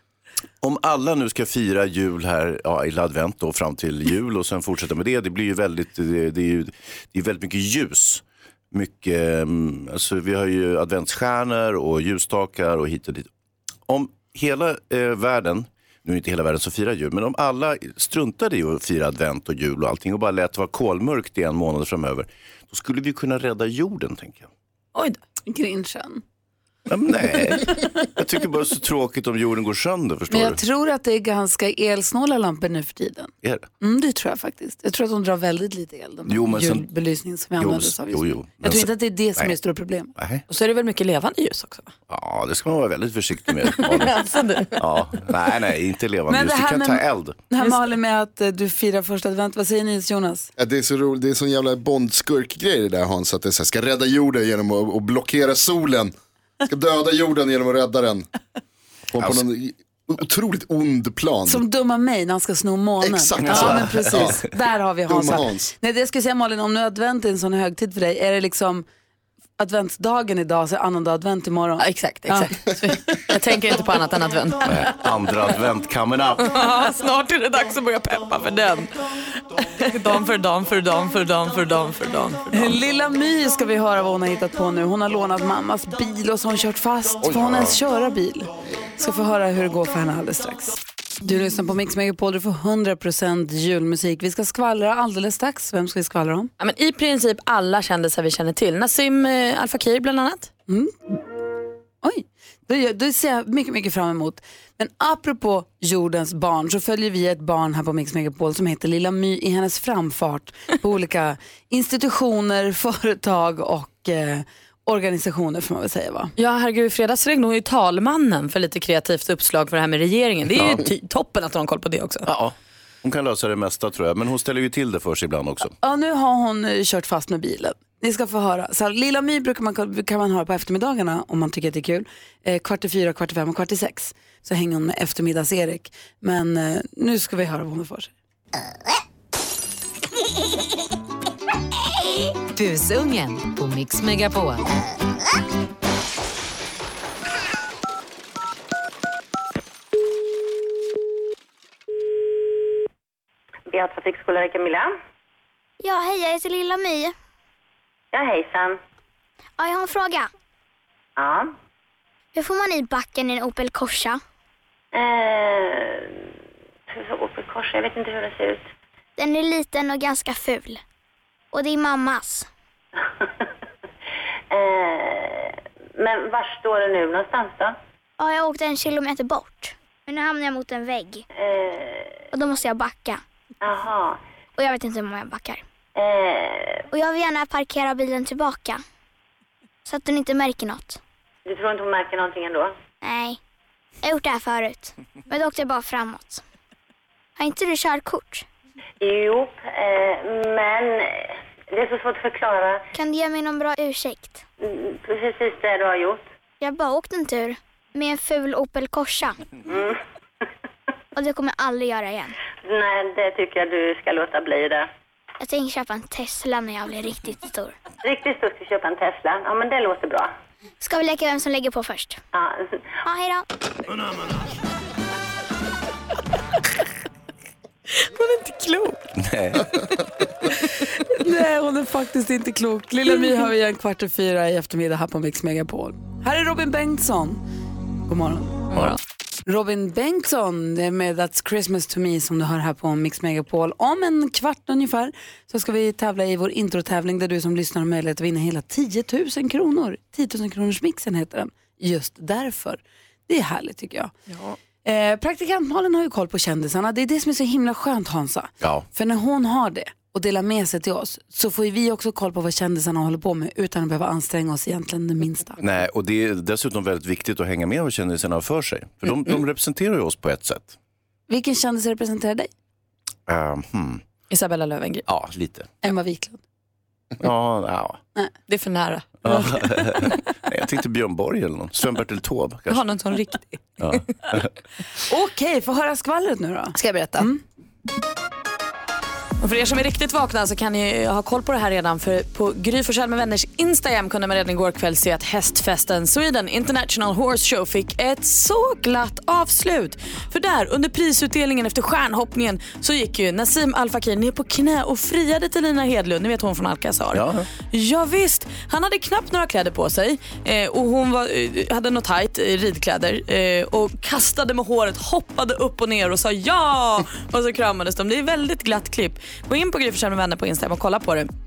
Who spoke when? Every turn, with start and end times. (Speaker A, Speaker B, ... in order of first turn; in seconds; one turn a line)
Speaker A: 0.6-13.3
Speaker A: 13.9-24.5
Speaker B: 25.5-26.2
Speaker A: 26.9-30.6
Speaker B: 30.3-40.1
Speaker A: 36.3-36.9
Speaker A: 37.6-39.5
Speaker A: 40.2-40.4
Speaker C: 40.5-41.9
Speaker A: 42.1-44.2
Speaker C: 43.8-44.8
Speaker A: 44.8-47.4
Speaker B: 46.3-50.5
Speaker D: 50.6-56.1
Speaker D: 56.7-58.3
Speaker D: 59.1-61.6
Speaker B: 61.5-68.8
Speaker D: 63.0-64.4
Speaker A: 63.4-64.4
Speaker D: 65.1-65.7
Speaker B: 69.6-72.6
Speaker C: 71.8-75.0
Speaker A: 74.7-76.5
Speaker C: 76.4-78.9
Speaker C: 79.6-82.7
Speaker B: 82.5-96.5
Speaker A: 87.2-87.7
Speaker C: 96.6-100.5
Speaker B: 100.7-101.0
Speaker B: 102.0-116.3
Speaker C: 116.4-122.3
Speaker A: 120.5-120.8
Speaker A: 122.3-125.7
Speaker B: 125.8-138.1
Speaker E: 142.6-144.6
Speaker F: 153.7-154.9
Speaker G: 155.8-157.1
Speaker F: 158.1-158.8
Speaker G: 159.6-160.3
Speaker F: 161.2-161.5
Speaker G: 162.3-164.2
Speaker F: 164.9-166.2
Speaker F: 166.9-168.7
Speaker G: 169.2-170.8
Speaker G: 171.5-172.5
Speaker F: 174.5-177.8
Speaker G: 178.2-181.2
Speaker F: 181.3-182.2
Speaker G: 182.3-183.2
Speaker F: 183.6-184.2
Speaker G: 184.6-185.6
Speaker F: 186.0-186.8
Speaker G: 186.9-188.8
Speaker G: 189.9-191.0
Speaker F: 191.5-192.8
Speaker G: 193.0-193.4
Speaker G: 194.0-196.4
Speaker G: 197.4-198.4
Speaker F: 199.0-202.8
Speaker G: 202.9-204.4
Speaker F: 204.6-206.2
Speaker G: 206.6-209.4
Speaker F: 209.7-210.0
Speaker G: 211.2-212.3
Speaker F: 212.6-214.9
Speaker G: 215.4-217.8
Speaker F: 218.0-220.3
Speaker G: 220.8-222.2
Speaker F: 222.3-222.8
Speaker G: 223.1-223.4
Speaker C: 228.0-229.0
Speaker A: 229.2-229.7
Speaker B: 231.0-237.4
Speaker B: 238.1-238.7
Speaker C: 238.7-239.0
Speaker B: 239.5-254.2
Speaker B: 254.8-265.6
Speaker A: 258.6-258.9
Speaker A: 265.6-270.8
Speaker B: 271.3-272.5
Speaker A: 273.3-274.0
Speaker C: 274.3-275.1
Speaker A: 275.1-275.7
Speaker B: 275.8-276.4
Speaker A: 277.2-278.0
Speaker C: 278.5-279.3
Speaker A: 279.2-282.9
Speaker C: 282.7-283.9
Speaker A: 283.8-284.5
Speaker B: 285.1-287.4
Speaker C: 286.8-287.2
Speaker C: 289.4-321.3
Speaker A: 307.1-307.5